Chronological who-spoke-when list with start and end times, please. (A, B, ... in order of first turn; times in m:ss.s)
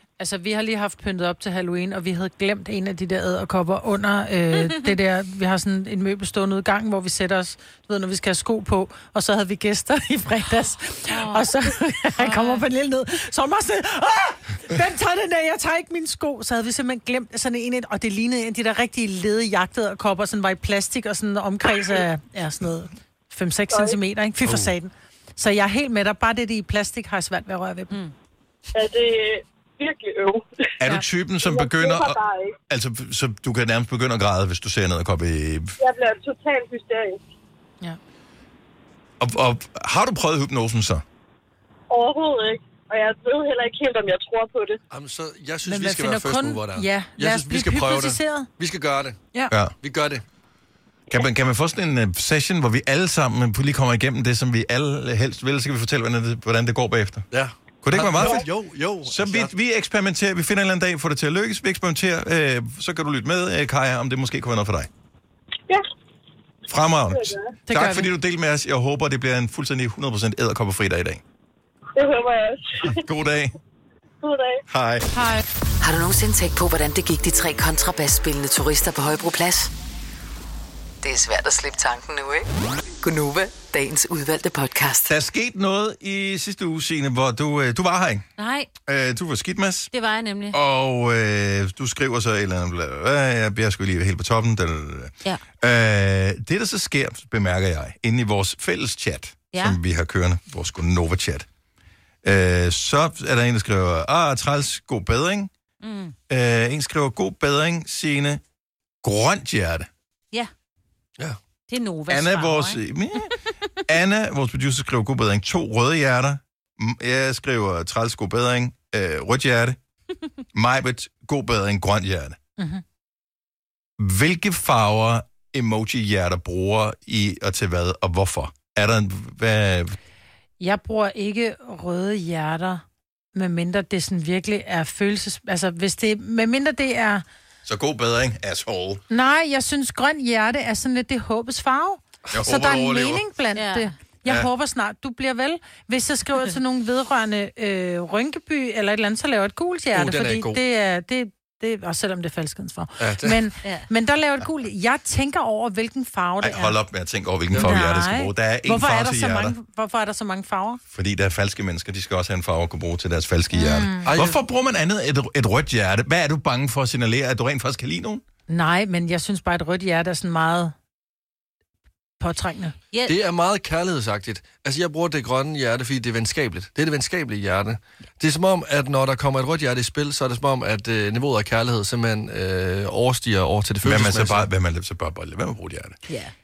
0:00.2-0:27.9 A
0:11.1-0:11.5 B
0:12.2-0:12.6 B
0:23.7-0:24.0 C
0:28.7-0:30.5 C
0:30.8-0:35.7 D
0:31.4-0:32.5 C
0:35.8-0:37.2 C
0:39.2-0:41.0 D
0:41.9-0:44.8 C
0:44.9-0:49.2 E
0:45.6-0:48.5 A
0:49.5-0:49.7 D
0:49.8-0:50.2 E
0:51.1-0:57.3 D
0:57.3-0:59.5 E
0:57.8-0:58.5 D
0:59.0-1:04.9 D
1:06.7-1:11.2 D
1:07.1-1:07.5 C
1:07.7-1:08.1 A
1:11.9-1:13.0 C
1:13.0-1:13.5 D
1:14.2-1:14.6 C
1:14.7-1:15.1 D
1:15.1-1:15.4 A
1:15.8-1:19.7 F
1:21.0-1:22.5 F
1:23.0-1:25.1 F
1:25.0-1:28.2 D
1:28.4-1:28.7 B
1:28.8-1:29.9 D
1:29.9-1:30.6 B
1:30.5-1:41.5 D
1:39.5-1:39.8 B
1:42.2-1:45.5 D
1:45.8-1:46.1 B
1:46.3-1:48.4 D
1:49.0-1:49.9 D
1:51.7-1:52.8 B
1:52.1-1:53.3 D
1:53.8-1:59.8 D
2:00.5-2:02.4 D
2:02.6-2:02.8 A
2:04.0-2:10.0 D
2:10.6-2:12.8 A
2:13.3-2:17.2 A
2:17.6-2:19.0 D
2:19.1-2:36.7 A
2:22.3-2:23.2 D
2:23.5-2:23.9 B
2:29.9-2:30.6 E
2:33.0-2:33.4 E
2:36.4-2:39.6 D
2:37.5-2:37.8 E
2:37.6-2:40.8 A
2:40.9-2:48.2 D
2:43.5-2:44.1 A
2:44.0-2:44.4 E
2:48.5-2:50.7 A
2:52.2-2:52.7 A
2:53.1-3:04.5 E
3:03.8-3:06.0 D
3:06.1-3:06.3 B